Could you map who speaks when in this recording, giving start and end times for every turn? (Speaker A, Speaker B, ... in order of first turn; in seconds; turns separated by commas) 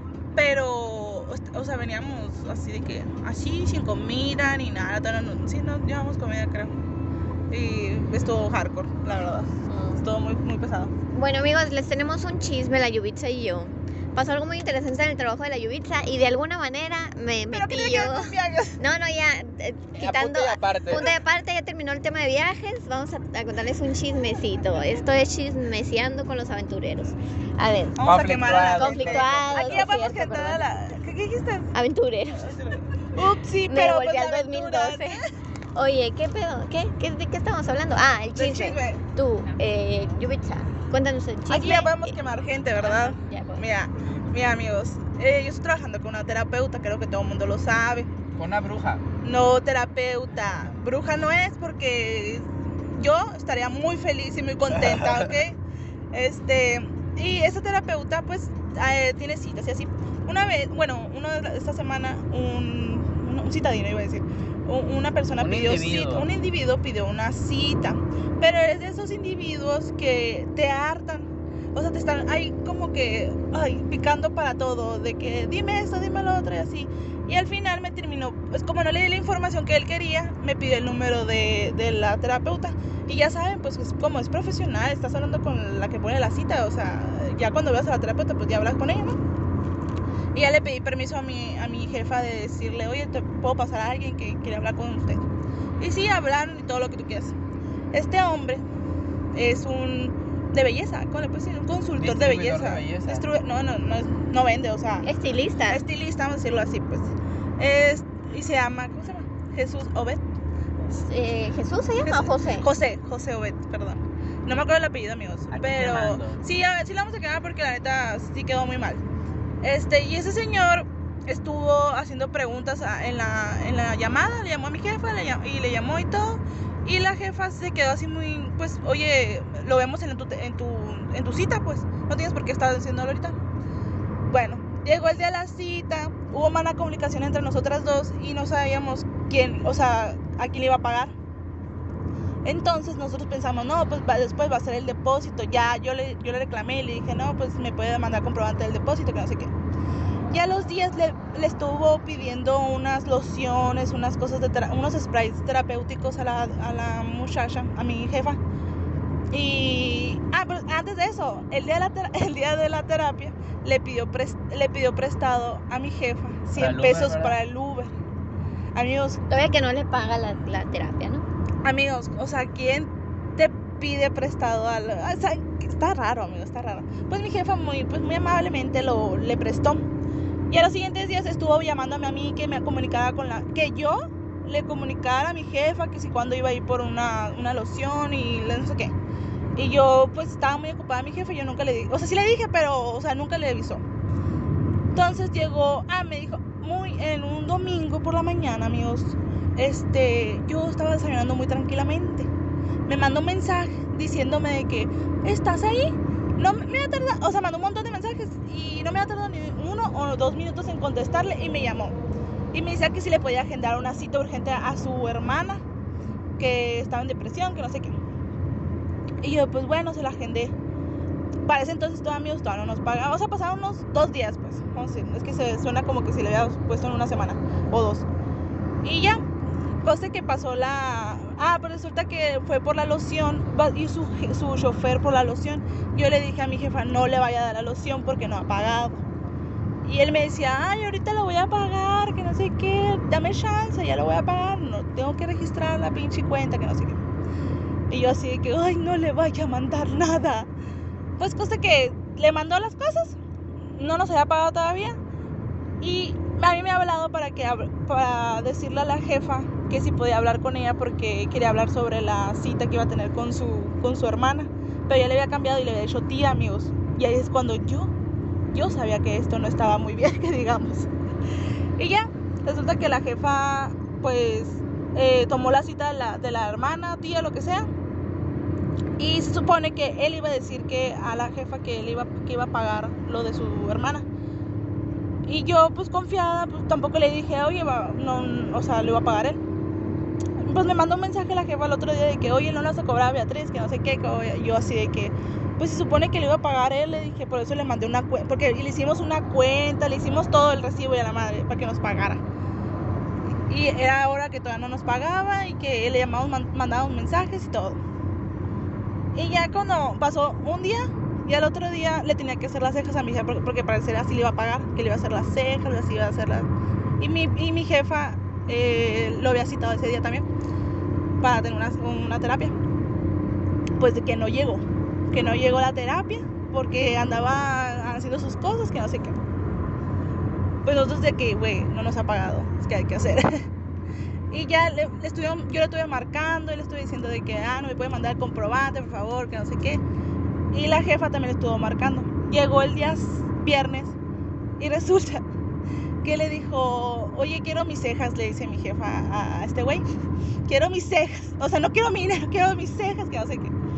Speaker A: 0.3-6.7, Speaker A: 7.5-10.9, Speaker B: 9.7-10.1, Speaker B: 11.1-28.0, Speaker A: 17.5-18.8, Speaker C: 20.0-21.1, Speaker A: 28.0-31.7, Speaker C: 28.0-29.8, Speaker B: 28.6-30.6, Speaker B: 31.7-32.5, Speaker A: 32.3-35.3, Speaker B: 33.7-35.2, Speaker B: 35.8-42.2, Speaker A: 38.4-39.0, Speaker A: 41.5-48.1, Speaker B: 42.8-43.7, Speaker C: 48.4-49.0, Speaker A: 49.2-55.6, Speaker C: 54.7-55.3, Speaker A: 56.1-89.2, Speaker C: 65.4-66.3, Speaker A: 90.3-95.2, Speaker A: 95.8-97.3, Speaker A: 97.9-98.6, Speaker A: 99.3-105.1, Speaker C: 102.0-103.2, Speaker B: 105.0-105.8, Speaker A: 105.7-110.2, Speaker B: 110.9-112.7, Speaker A: 112.0-119.0, Speaker C: 115.5-116.4, Speaker A: 119.6-133.4, Speaker A: 134.3-141.1, Speaker A: 142.4-149.5, Speaker A: 150.3-158.4, Speaker A: 159.3-167.9, Speaker C: 166.6-167.4, Speaker A: 168.8-169.2, Speaker B: 169.3-171.2, Speaker A: 171.6-179.8, Speaker A: 180.5-188.9, Speaker A: 189.6-193.8, Speaker A: 194.9-202.3, Speaker A: 202.9-212.0, Speaker A: 212.5-215.6, Speaker A: 216.4-218.0, Speaker A: 219.2-220.5, Speaker A: 221.5-228.1, Speaker A: 228.8-239.0, Speaker A: 239.8-247.0, Speaker A: 247.9-250.5, Speaker A: 251.2-253.2, Speaker A: 253.8-255.0, Speaker A: 255.8-267.9, Speaker A: 268.5-270.9, Speaker A: 271.8-277.7, Speaker A: 279.0-284.1, Speaker A: 285.3-289.4, Speaker A: 290.4-302.2, Speaker A: 303.5-307.8, Speaker A: 309.1-316.5, Speaker A: 317.0-320.3, Speaker A: 321.2-322.6, Speaker A: 323.8-329.2, Speaker A: 330.6-333.5, Speaker A: 334.3-339.8, Speaker A: 340.5-343.9, Speaker A: 344.6-345.2, Speaker A: 346.0-349.9, Speaker A: 350.5-353.5